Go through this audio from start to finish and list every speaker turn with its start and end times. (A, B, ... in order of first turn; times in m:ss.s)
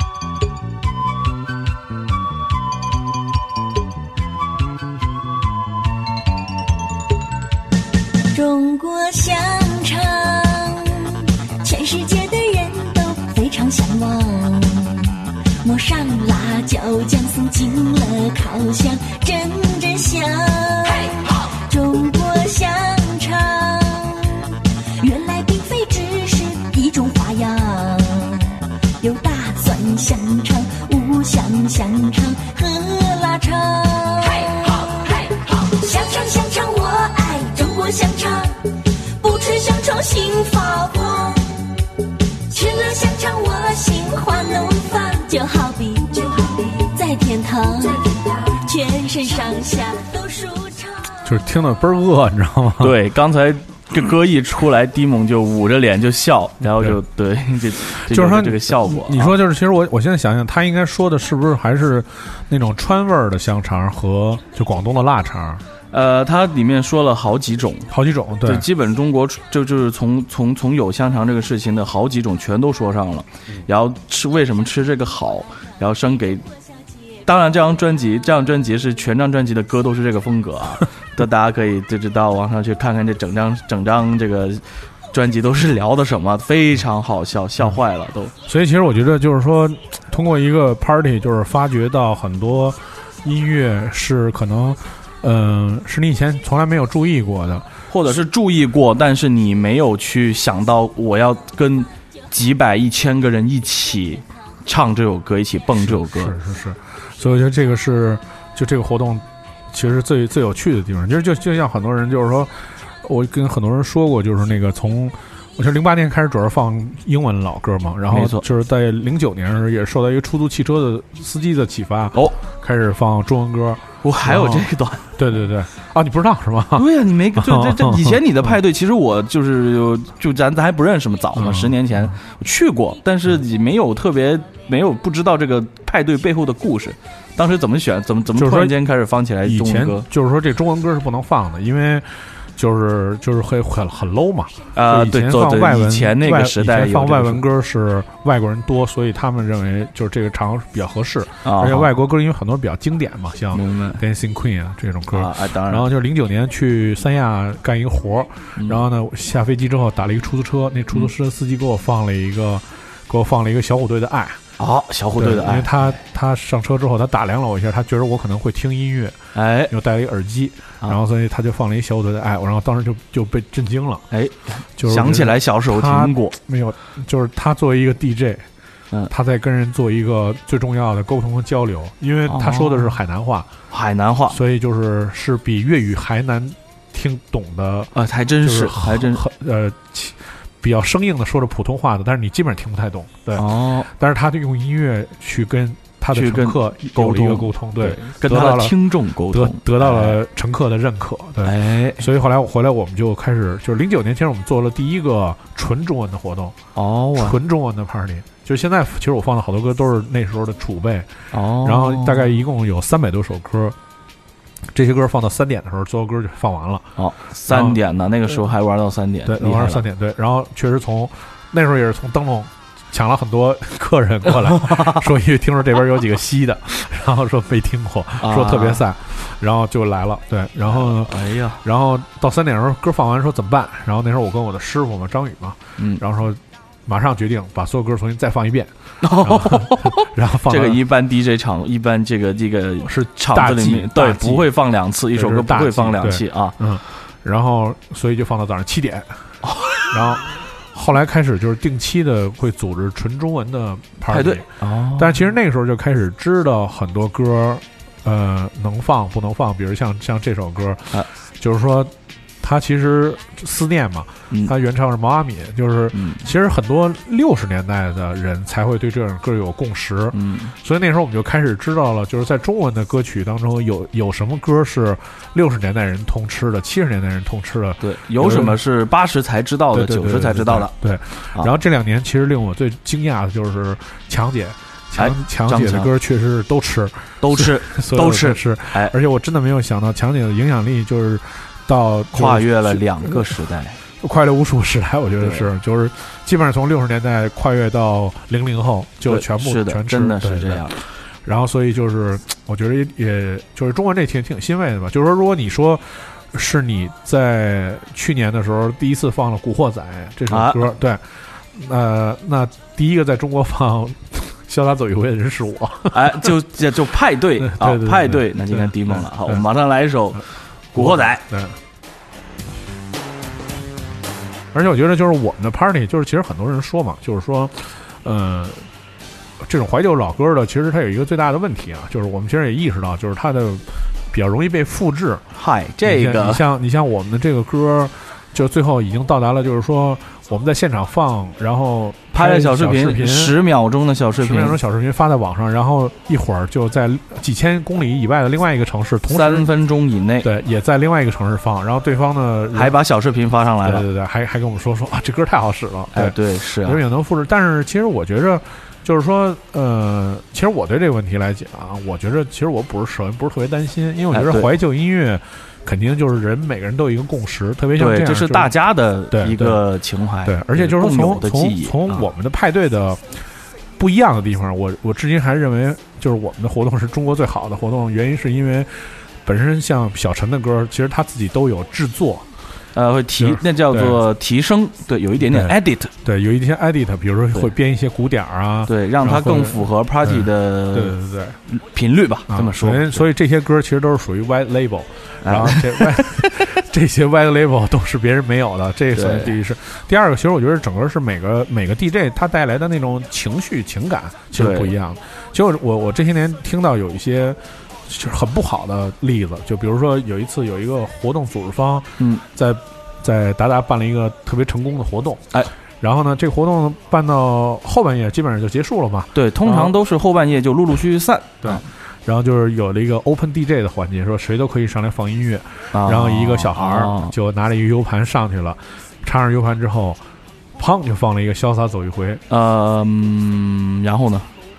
0:08.3-0:41.6 A
0:42.5-0:51.1 A
0:51.2-0:53.0 B
0:52.8-0:59.4 C
0:58.0-1:05.6 B
1:05.9-1:16.5 C
1:07.9-1:08.7 B
1:17.2-1:28.3 C
1:28.5-1:37.7 B
1:37.9-1:46.4 C
1:45.8-2:08.2 B
1:58.1-1:58.5 C
2:04.0-2:05.1 C
2:06.8-2:20.1 C
2:11.4-2:12.1 B
2:18.4-2:18.8 B
2:19.4-2:44.4 B
2:24.8-2:27.4 C
2:31.4-2:31.9 C
2:33.5-2:34.0 C
2:35.1-2:35.9 C
2:38.6-2:38.8 C
2:44.6-2:46.0 C
2:45.2-2:49.2 B
2:49.4-2:49.7 C
2:49.7-2:54.0 B
2:54.1-2:56.4 C
2:54.8-2:58.5 B
2:59.1-3:03.5 B
3:02.3-3:03.0 C
3:03.7-3:04.4 C
3:04.3-3:18.8 B
3:08.0-3:09.2 C
3:13.4-3:13.9 C
3:16.1-3:20.2 C
3:19.3-3:26.6 B
3:21.4-3:22.1 C
3:26.8-3:27.4 C
3:27.2-3:31.1 B
3:31.3-3:32.3 C
3:31.6-3:33.8 B
3:34.7-3:37.0 B
3:37.0-3:39.8 C
3:37.5-3:37.8 B
3:39.2-4:00.8 B
3:44.7-3:45.0 C
3:48.2-3:48.8 C
3:50.7-3:51.6 C
3:59.0-4:06.6 C
4:02.8-4:04.5 B
4:05.1-4:09.2 B
4:09.4-4:09.9 C
4:09.9-4:38.6 B
4:14.1-4:15.2 C
4:25.9-4:26.2 C
4:30.1-4:30.5 C
4:37.8-4:40.7 C
4:39.7-4:53.4 B
4:45.0-4:45.9 C
4:47.2-4:49.0 C
4:52.1-4:53.8 C
4:54.0-5:16.3 B
4:55.2-4:55.5 C
4:59.0-5:00.8 C
5:10.3-5:10.7 C
5:15.9-5:21.2 C
5:17.4-5:19.4 B
5:20.8-5:21.6 B
5:24.5-5:28.6 B
5:29.4-5:35.2 B
5:35.3-5:36.4 C
5:35.8-5:43.4 B
5:42.1-5:44.6 C
5:44.2-5:49.5 B
5:49.1-5:50.3 C
5:50.2-5:52.8 B
5:52.5-5:53.8 C
5:53.6-6:08.5 B
5:55.9-5:56.8 C
6:04.1-6:04.5 C
6:07.8-6:12.1 C
6:09.1-6:09.6 B
6:10.2-6:13.2 B
6:13.8-6:22.2 B
6:22.7-6:25.9 C
6:23.2-6:24.0 B
6:25.2-6:31.4 B
6:28.7-6:31.0 C
6:31.5-6:33.0 C
6:32.3-6:55.3 B
6:35.2-6:36.5 C
6:39.0-6:39.4 C
6:44.3-6:44.7 C
6:55.8-6:59.8 B
6:59.2-7:01.6 C
7:01.4-7:10.0 B
7:05.7-7:07.1 C
7:10.6-7:12.2 B
7:12.3-7:14.3 C